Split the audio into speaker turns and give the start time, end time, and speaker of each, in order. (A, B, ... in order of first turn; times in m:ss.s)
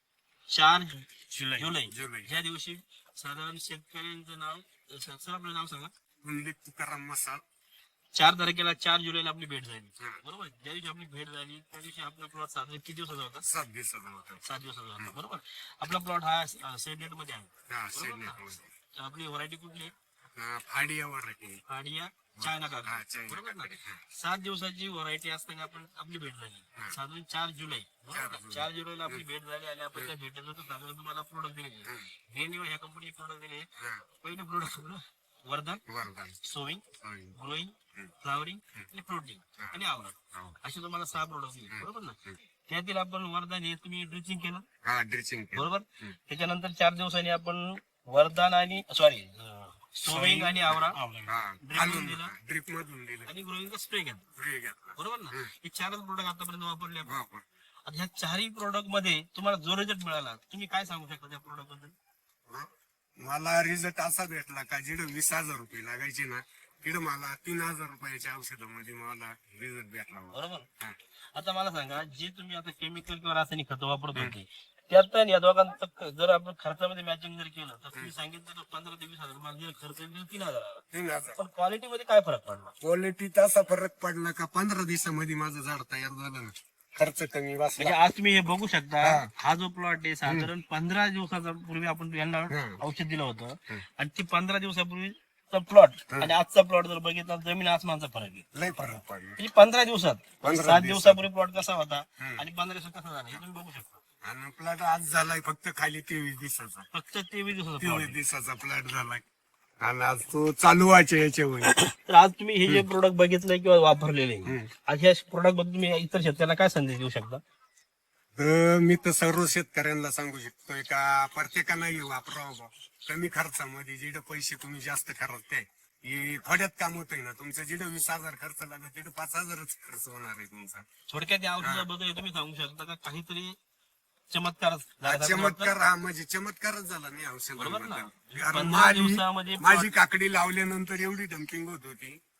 0:00.5-0:05.9 A
0:01.3-0:02.3 B
0:06.2-0:07.4 B
0:08.1-0:13.4 A
0:13.4-0:14.4 B
0:14.4-0:18.4 A
0:17.7-0:18.7 B
0:18.9-0:19.9 A
0:20.4-0:21.6 B
0:21.7-0:33.7 A
0:22.4-0:24.0 B
0:28.1-0:29.2 B
0:34.2-0:35.8 A
0:35.9-0:36.4 B
0:36.4-0:36.8 A
0:37.0-0:37.4 B
0:37.3-0:44.6 A
0:41.7-0:42.4 B
0:44.8-0:46.2 B
0:45.5-0:52.3 A
0:50.0-0:53.3 B
0:53.2-0:54.2 A
0:54.4-0:55.5 B
0:55.0-0:57.2 A
0:57.0-0:57.4 B
0:57.8-1:01.9 A
1:03.2-1:11.0 B
1:10.3-1:10.7 A
1:11.3-1:22.7 A
1:20.9-1:21.4 B
1:22.8-1:28.0 B
1:27.8-1:38.5 A
1:29.0-1:29.3 B
1:30.2-1:30.5 B
1:32.5-1:32.8 B
1:38.5-1:39.4 B
1:39.4-1:44.0 A
1:40.4-1:41.3 B
1:44.2-1:46.9 B
1:46.9-1:48.2 A
1:47.8-1:49.2 B
1:49.8-1:51.8 B
1:51.7-1:57.4 A
1:58.4-2:10.8 B
2:11.1-2:13.6 A
2:11.6-2:11.9 B
2:14.3-2:15.7 A
2:15.0-2:22.2 B
2:17.6-2:19.9 A